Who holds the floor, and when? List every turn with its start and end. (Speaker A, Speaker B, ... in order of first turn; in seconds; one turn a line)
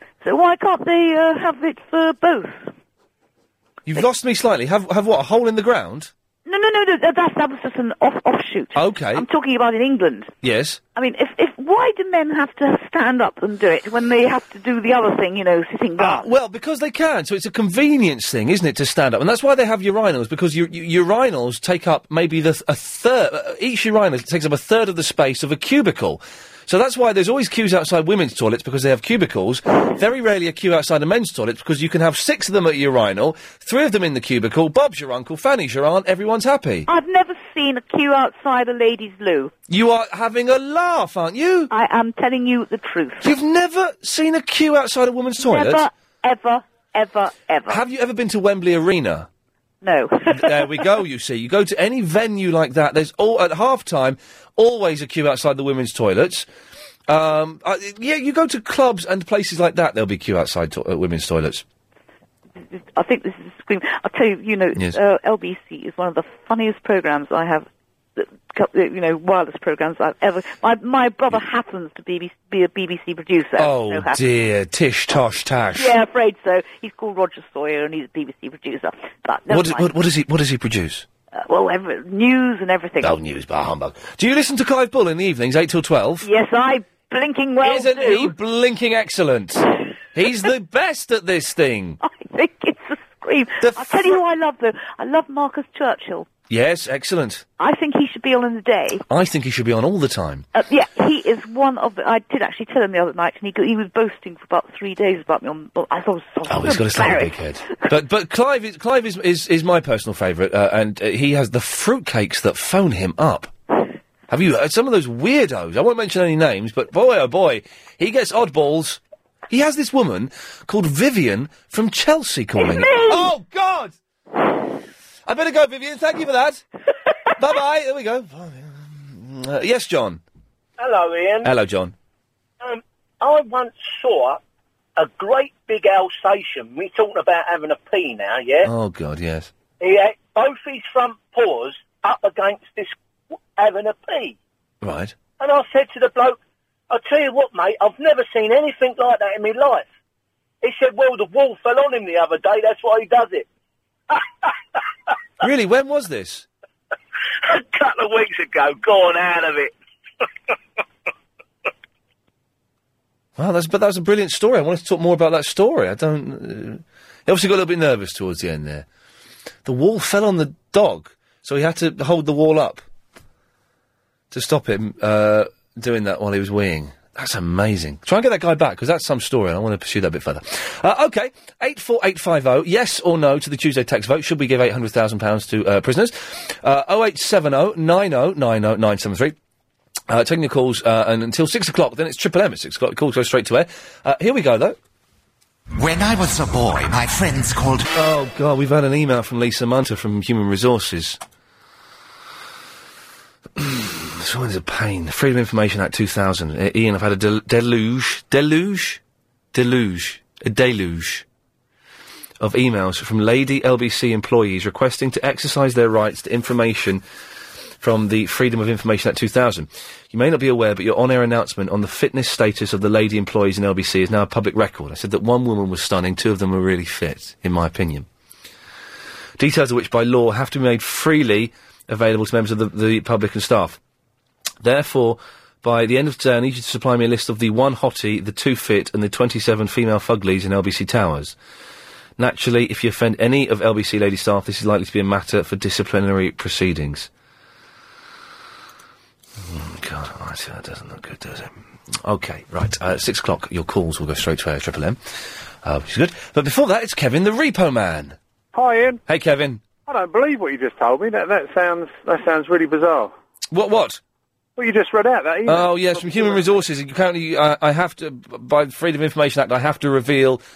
Speaker A: 0.2-2.7
Speaker B: 3.9-6.1
Speaker A: 6.5-10.3
Speaker B: 8.8-9.3
Speaker B: 10.4-10.8
Speaker A: 11.0-16.3
Speaker B: 16.0-36.9
Speaker A: 36.9-39.5
Speaker B: 39.7-41.7
Speaker A: 41.7-43.3
Speaker B: 43.2-45.9
Speaker A: 45.4-47.8
Speaker B: 47.7-49.3
Speaker A: 49.8-50.8
Speaker B: 50.3-56.5
Speaker B: 57.1-61.6
Speaker A: 62.7-74.2
Speaker B: 73.6-75.9
Speaker A: 75.8-79.9
Speaker B: 79.5-81.1
Speaker A: 81.3-83.2
Speaker B: 83.0-86.3
Speaker A: 86.2-88.3
Speaker B: 87.6-92.0
Speaker A: 92.0-96.3
Speaker B: 93.6-94.2
Speaker B: 96.5-97.5
Speaker A: 97.6-99.0
Speaker B: 99.1-100.5
Speaker A: 100.5-107.7
Speaker B: 106.5-113.5
Speaker B: 114.3-119.0
Speaker B: 119.5-124.0
Speaker B: 125.3-126.6
Speaker B: 127.4-130.2
Speaker C: 130.8-131.5
Speaker B: 131.4-131.9
Speaker C: 132.6-134.4
Speaker C: 135.0-138.7
Speaker B: 138.6-139.5
Speaker C: 139.8-142.9
Speaker C: 143.6-144.3
Speaker B: 144.8-145.2
Speaker C: 145.4-146.4
Speaker C: 146.9-149.8
Speaker C: 150.6-153.4
Speaker B: 155.4-156.4
Speaker C: 157.5-159.7
Speaker B: 163.4-168.9
Speaker B: 169.7-172.8
Speaker B: 174.3-189.4
Speaker B: 190.1-194.8
Speaker D: 195.8-197.9
Speaker B: 197.9-201.2
Speaker B: 203.6-209.0
Speaker B: 209.5-211.2
Speaker B: 212.4-217.0
Speaker B: 217.8-228.1
Speaker B: 229.4-233.8
Speaker B: 234.6-241.4
Speaker B: 242.2-247.1
Speaker B: 249.4-255.0
Speaker B: 255.6-258.2
Speaker E: 258.5-259.0
Speaker B: 259.1-259.6
Speaker E: 259.9-263.1
Speaker B: 263.5-264.0
Speaker E: 264.6-266.4
Speaker B: 265.5-270.4